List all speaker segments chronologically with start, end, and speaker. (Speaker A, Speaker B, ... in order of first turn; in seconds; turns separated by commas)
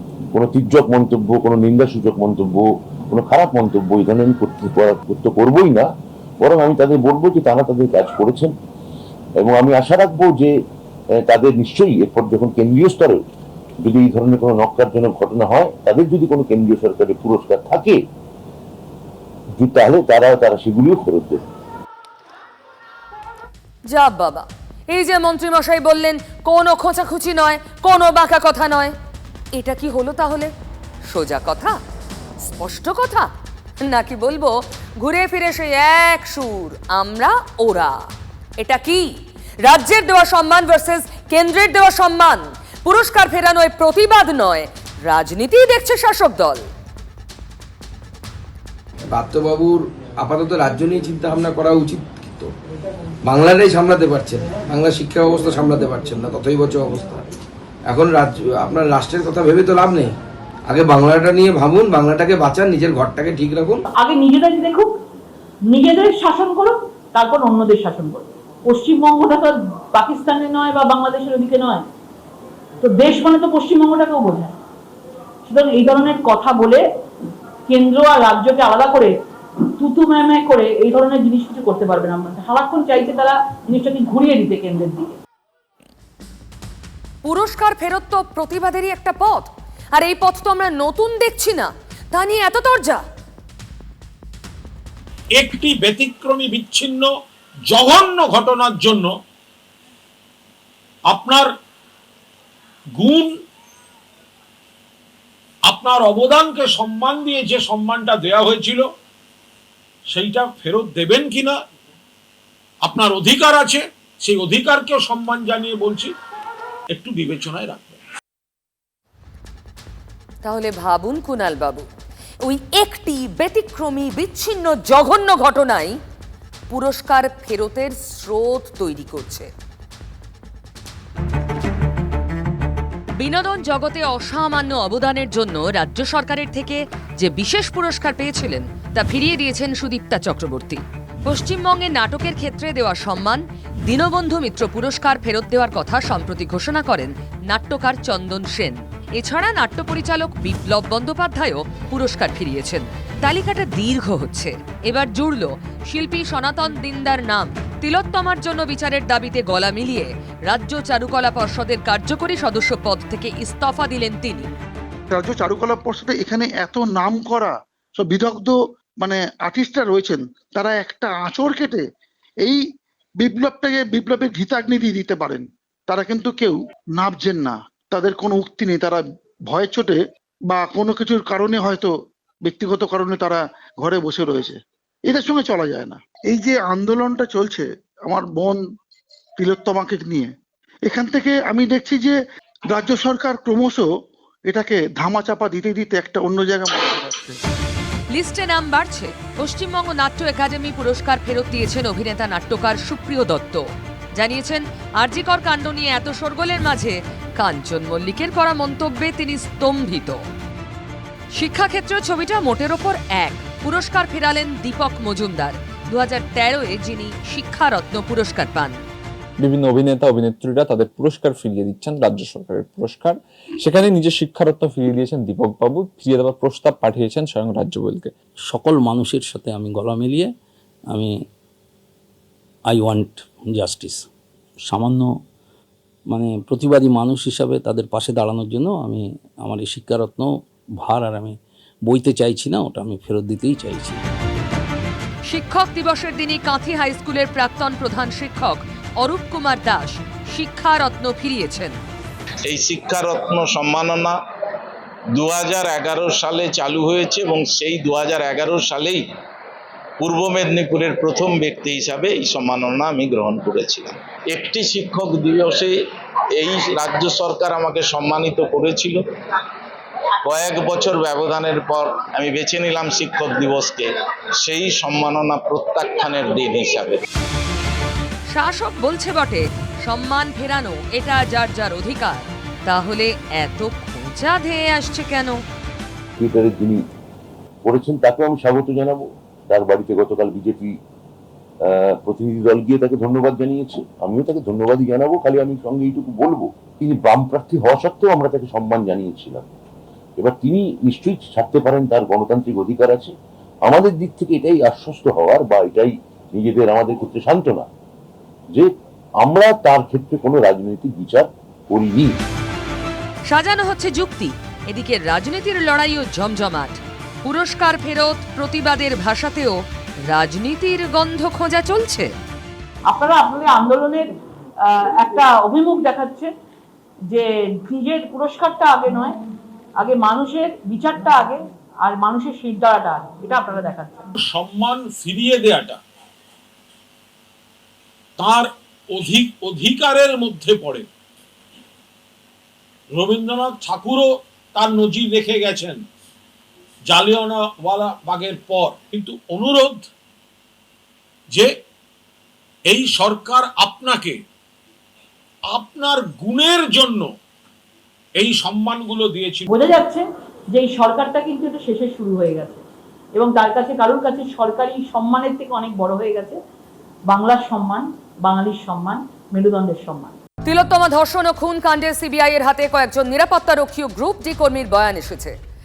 Speaker A: 0.3-5.9, Speaker A: 6.4-8.5, Speaker A: 9.4-10.5, Speaker A: 11.2-13.2, Speaker A: 13.8-18.0, Speaker A: 19.6-21.4, Speaker B: 23.9-28.9, Speaker B: 29.6-30.5, Speaker B: 31.1-31.8, Speaker B: 32.4-33.3, Speaker B: 33.8-38.0, Speaker B: 38.6-39.1, Speaker B: 39.6-46.6, Speaker C: 49.1-52.5, Speaker C: 53.3-57.2, Speaker C: 57.9-60.1, Speaker C: 60.7-63.8, Speaker D: 63.9-64.9, Speaker D: 65.7-71.8, Speaker D: 72.8-74.6, Speaker D: 75.5-76.8, Speaker D: 77.7-79.1, Speaker D: 79.8-85.2, Speaker B: 87.2-93.0, Speaker E: 95.4-97.1, Speaker E: 97.7-99.1, Speaker E: 101.1-101.5, Speaker E: 103.0-103.3, Speaker E: 105.7-108.9, Speaker E: 110.1-111.6, Speaker E: 112.8-116.1, Speaker E: 116.9-118.0, Speaker B: 120.4-121.9, Speaker B: 122.4-126.0, Speaker B: 126.7-129.5, Speaker B: 133.2-164.5, Speaker F: 165.1-171.8, Speaker F: 173.2-181.9, Speaker F: 182.4-184.6, Speaker F: 185.1-188.6, Speaker F: 189.4-190.3, Speaker F: 190.9-192.2, Speaker F: 192.7-193.9, Speaker F: 194.5-197.4, Speaker B: 198.1-210.2, Speaker B: 211.3-218.8, Speaker G: 219.4-228.1, Speaker H: 228.5-230.3, Speaker H: 230.9-231.2, Speaker H: 232.7-234.1, Speaker H: 234.7-235.1, Speaker H: 236.1-244.0, Speaker B: 245.3-251.8, Speaker I: 252.5-254.2, Speaker I: 255.2-259.0, Speaker I: 260.0-265.7, Speaker I: 266.4-269.0, Speaker I: 270.2-273.9, Speaker I: 274.4-277.0, Speaker B: 278.3-285.4, Speaker A: 286.2-286.8, Speaker A: 287.6-290.8, Speaker A: 291.6-299.5, Speaker A: 300.2-303.1, Speaker A: 303.7-307.7, Speaker A: 309.2-312.1, Speaker B: 313.3-322.1, Speaker D: 322.9-324.1, Speaker D: 324.6-326.3, Speaker D: 327.1-329.1, Speaker D: 329.8-334.1, Speaker E: 334.2-335.8, Speaker E: 338.2-340.9, Speaker E: 343.0-345.8, Speaker E: 346.9-349.9, Speaker E: 352.7-354.2, Speaker E: 355.5-357.1, Speaker E: 358.2-359.5, Speaker D: 359.5-362.6, Speaker D: 363.2-366.4, Speaker D: 367.1-370.1, Speaker B: 370.5-375.3